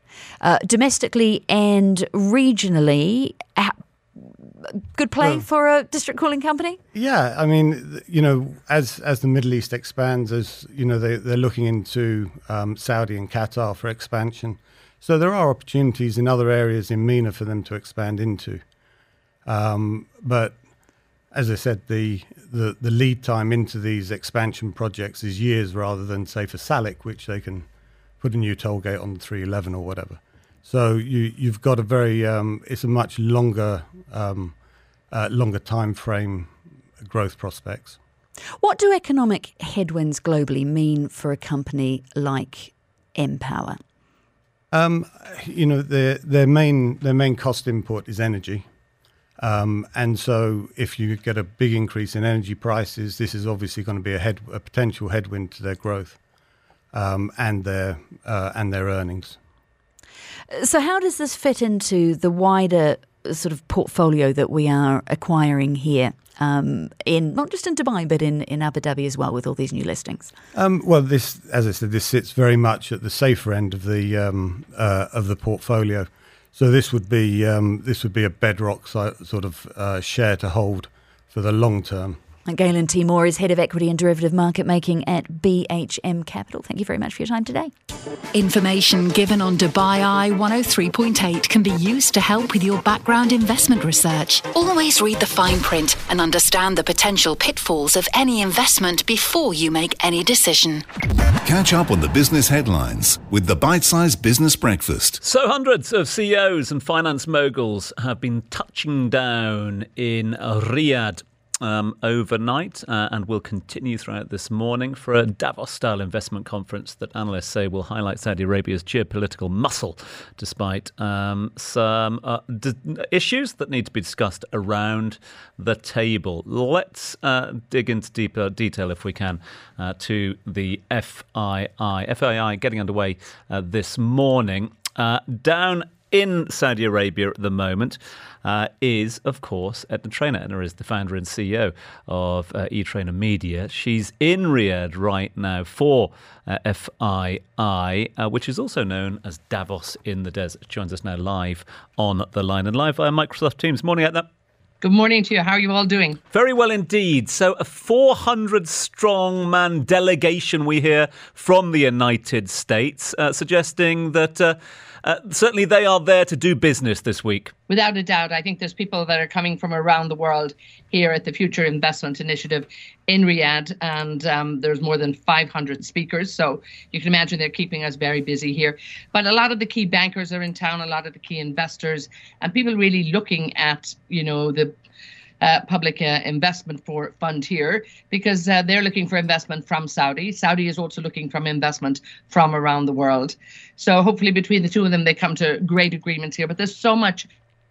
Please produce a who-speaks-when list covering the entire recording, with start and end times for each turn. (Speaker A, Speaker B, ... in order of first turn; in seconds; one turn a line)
Speaker A: 0.4-4.3
Speaker A: 4.9-6.8
Speaker B: 6.9-18.6
Speaker B: 19.4-20.6
Speaker B: 21.3-27.7
Speaker B: 28.2-34.5
Speaker B: 35.1-38.0
Speaker A: 38.6-43.8
Speaker B: 44.7-48.6
Speaker B: 49.4-56.2
Speaker B: 56.9-59.4
Speaker A: 60.5-70.3
Speaker B: 70.5-82.2
Speaker A: 82.5-87.7
Speaker C: 88.3-100.8
Speaker D: 101.4-105.2
Speaker E: 105.2-154.3
Speaker F: 154.8-156.2
Speaker E: 156.3-167.5
Speaker F: 167.7-184.7
Speaker F: 185.4-197.3